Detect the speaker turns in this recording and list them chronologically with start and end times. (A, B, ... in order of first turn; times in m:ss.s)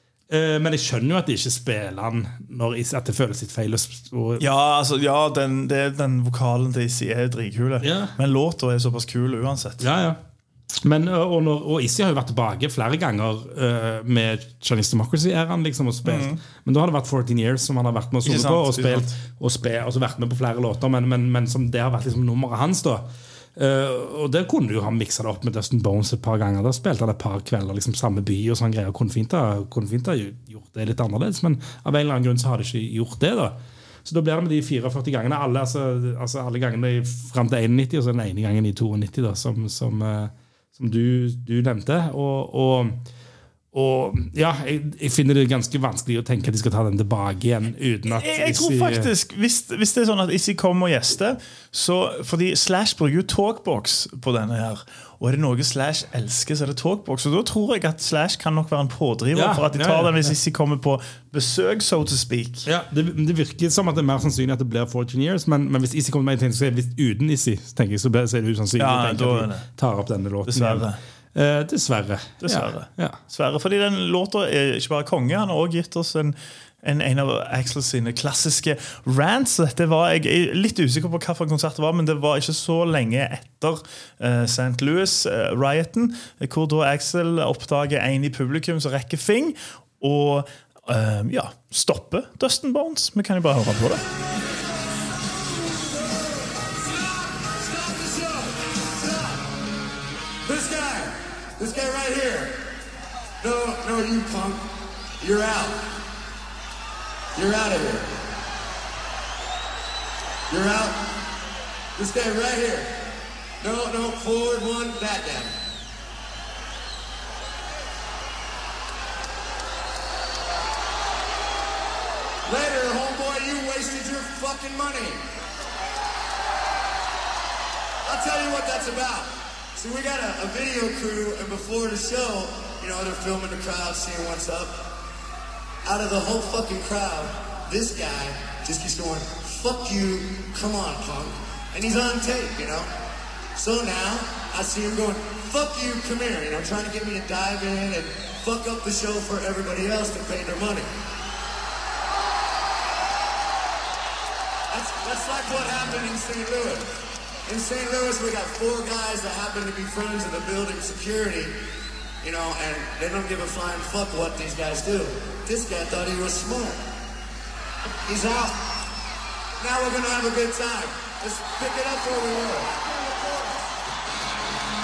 0:00.3-0:04.4 A
0:04.4-0:09.8 B
0:07.8-0:08.1 A
0:09.8-0:10.2 A
0:10.8-0:43.0 A
0:16.0-0:16.4 B
0:18.2-0:19.1 B
0:43.7-0:49.1 A
0:48.1-1:02.7 B
0:59.3-1:00.3 A
1:02.6-1:13.2 A
1:08.8-1:09.6 B
1:10.5-1:11.0 B
1:12.4-1:34.0 B
1:35.2-1:39.4 C
1:40.4-1:42.6 C
1:43.4-1:45.9 C
1:47.3-1:48.2 C
1:50.5-1:51.2 C
1:52.0-1:53.0 C
1:53.6-1:55.6 C
2:02.4-2:05.2 C
2:08.0-2:14.9 C
2:15.8-2:22.9 C
2:23.6-2:30.9 C
2:34.7-2:41.5 C
2:42.2-2:46.8 C
2:48.1-2:48.6 C
2:49.6-2:53.5 C